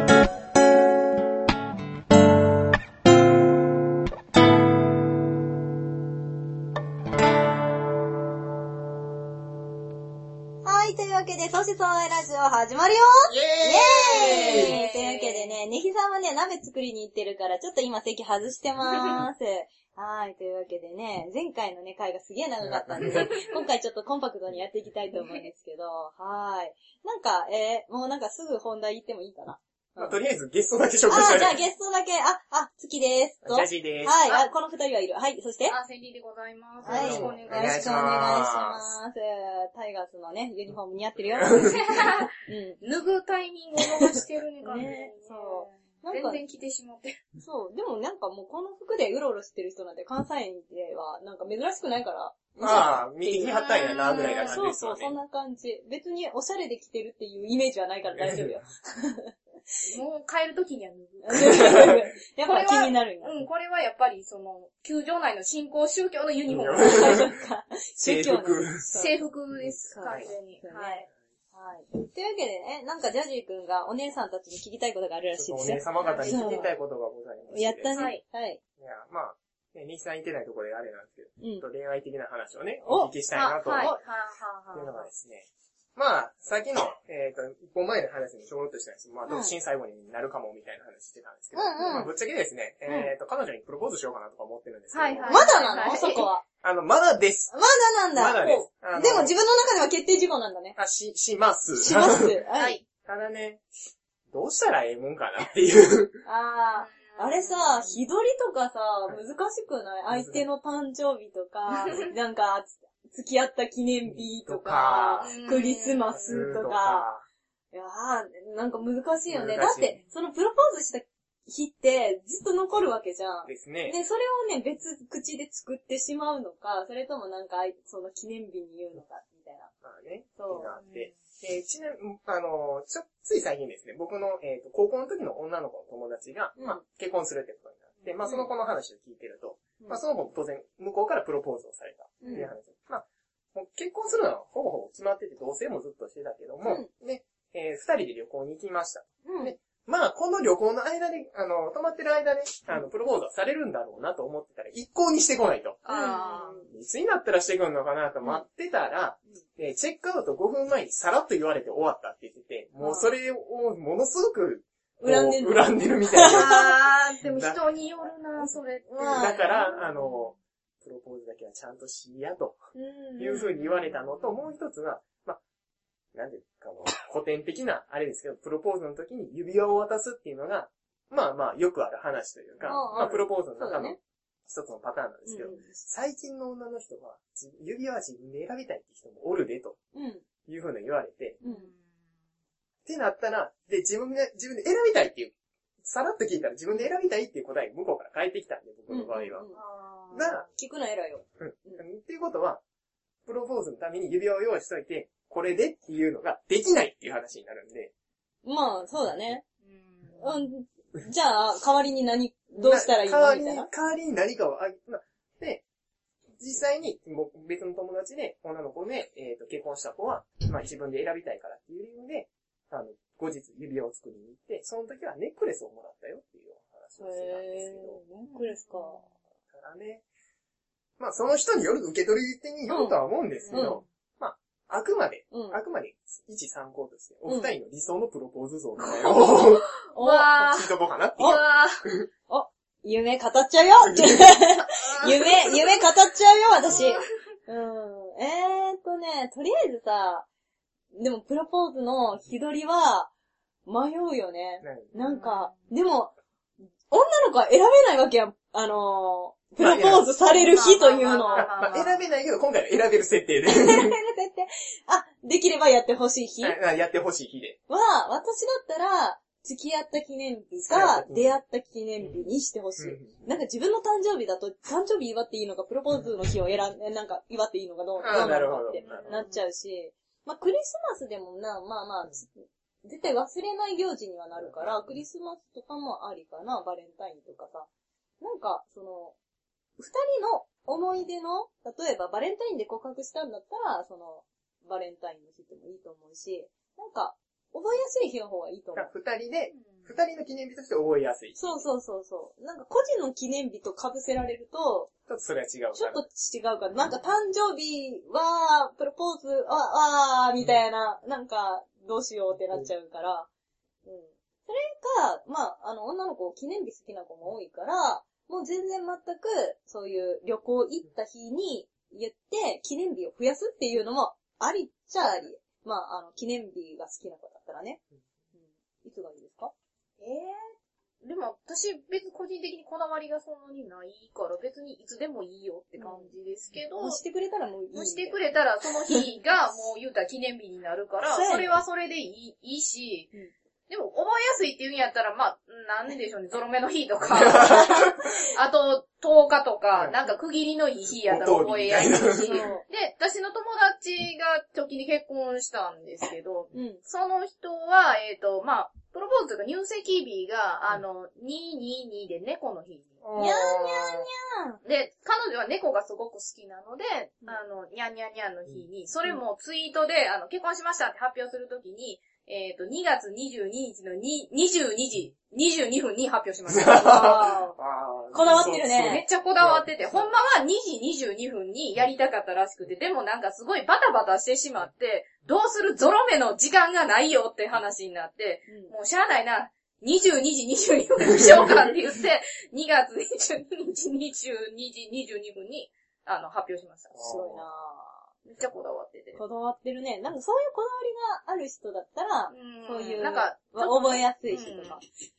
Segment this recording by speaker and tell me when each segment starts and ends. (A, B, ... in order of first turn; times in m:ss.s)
0:10.6-0:30.2 A
0:14.1-0:15.5 B
0:14.2-0:14.6 C
0:22.6-0:23.4 C
0:25.2-0:25.4 B
0:30.0-0:31.6 C
0:31.1-0:35.8 A
0:33.4-0:34.2 C
0:35.7-0:38.1 B
0:36.8-0:38.9 C
0:36.8-0:41.6 A
0:41.4-0:41.8 C
0:41.5-0:42.3 B
0:42.4-0:42.8 A
0:42.8-0:47.2 B
0:44.6-0:46.4 A
0:47.4-0:59.3 A
0:52.6-0:55.2 C
0:53.5-0:54.6 B
0:58.2-0:58.6 C
0:59.9-1:07.3 B
1:01.2-1:03.4 A
1:01.4-1:02.0 C
1:06.5-1:07.3 C
1:06.8-1:09.2 A
1:08.0-1:08.8 C
1:08.9-1:11.0 B
1:09.9-1:16.7 A
1:15.3-1:17.9 C
1:16.0-1:16.7 B
1:17.5-1:18.6 A
1:17.9-1:18.2 B
1:18.8-1:23.9 C
1:21.4-1:21.6 A
1:22.8-1:23.1 A
1:23.3-1:25.1 B
1:24.7-1:35.5 C
1:31.5-1:32.1 A
1:34.9-1:36.3 B
1:35.3-1:36.4 A
1:36.6-1:37.5 C
1:37.5-1:40.8 A
1:38.1-1:39.3 C
1:40.8-1:42.4 C
1:41.8-1:42.8 A
1:42.5-1:42.8 B
1:43.0-1:43.6 C
1:44.3-1:46.2 C
1:46.2-1:57.1 A
1:46.8-1:47.9 B
1:50.1-1:50.4 C
1:54.1-1:55.3 C
1:55.2-1:56.2 B
1:56.2-1:57.2 C
1:57.7-2:09.7 A
1:59.3-2:00.0 C
2:03.4-2:04.0 C
2:09.8-2:35.9 C
2:10.4-2:10.7 A
2:10.8-2:11.1 B
2:16.6-2:16.8 A
2:18.0-2:18.3 B
2:22.2-2:22.5 A
2:26.6-2:26.9 A
2:29.2-2:29.6 A
2:35.8-2:36.6 B
2:35.9-2:36.7 A
2:36.7-2:46.7 C
2:42.8-2:43.1 A
2:45.0-2:46.7 A
2:46.2-2:50.3 B
2:47.3-2:47.6 C
2:48.9-2:49.7 A
2:49.1-2:52.6 C
2:52.8-2:53.8 A
2:53.2-2:55.4 C
2:56.1-3:09.8 C
3:02.6-3:02.9 B
3:02.6-3:04.0 A
3:05.2-3:05.8 A
3:09.9-3:10.2 A
3:10.4-3:11.4 C
3:11.4-3:11.8 B
3:11.4-3:11.7 A
3:12.8-3:19.5 C
3:18.9-3:19.6 A
3:19.5-3:20.5 B
3:20.1-3:20.5 C
3:20.4-3:21.8 A
3:21.4-3:22.6 C
3:23.2-3:27.9 C
3:28.4-3:29.4 A
3:29.6-3:30.3 B
3:30.2-3:33.7 A
3:32.6-3:35.6 C
3:36.4-3:48.0 C
3:47.0-3:49.0 A
3:48.2-3:49.0 B
3:49.5-3:50.0 C
3:51.0-3:59.7 C
3:52.7-3:53.0 A
3:53.3-3:53.8 B
3:53.5-3:53.8 A
3:55.3-3:55.6 A
3:57.2-3:57.5 A
3:58.8-4:01.8 B
3:59.9-4:00.3 A
4:00.4-4:02.1 C
4:02.3-4:10.3 A
4:03.9-4:04.2 C
4:04.8-4:05.4 C
4:06.7-4:07.0 B
4:11.0-4:13.1 A
4:13.7-4:16.1 A
4:14.6-4:14.9 C
4:15.0-4:15.7 B
4:16.9-4:21.5 A
4:19.6-4:20.1 C
4:20.2-4:22.0 B
4:21.3-4:23.9 C
4:23.4-4:26.6 A
4:26.4-4:27.6 C
4:27.7-4:42.3 A
4:30.7-4:31.3 C
4:32.0-4:33.2 C
4:38.0-4:39.2 C
4:38.8-4:39.4 B
4:42.8-4:47.7 A
4:44.3-4:45.0 C
4:48.2-4:49.1 A
4:49.8-4:58.9 A
4:58.7-5:01.6 C
4:59.5-4:59.9 B
5:01.4-5:04.9 A
5:05.1-5:06.1 C
5:05.7-5:13.3 A
5:13.8-5:27.8 A
5:28.3-5:29.5 A
5:30.0-5:37.0 B
5:35.8-5:36.1 A
5:36.8-5:38.2 A
5:37.7-5:43.1 B
5:41.1-5:41.6 A
5:43.7-6:03.1 B
5:47.1-5:48.0 C
5:51.1-5:52.4 C
5:52.2-5:52.6 A
5:56.5-5:56.8 A
6:03.0-6:04.1 C
6:03.2-6:04.6 A
6:04.6-6:17.3 B
6:16.5-6:20.1 C
6:16.8-6:17.5 A
6:18.1-6:19.0 A
6:18.4-6:36.9 B
6:28.5-6:28.7 A
6:31.1-6:31.5 C
6:36.9-6:37.4 C
6:37.0-6:38.1 A
6:38.2-6:39.2 B
6:39.1-6:44.8 A
6:42.3-6:44.8 B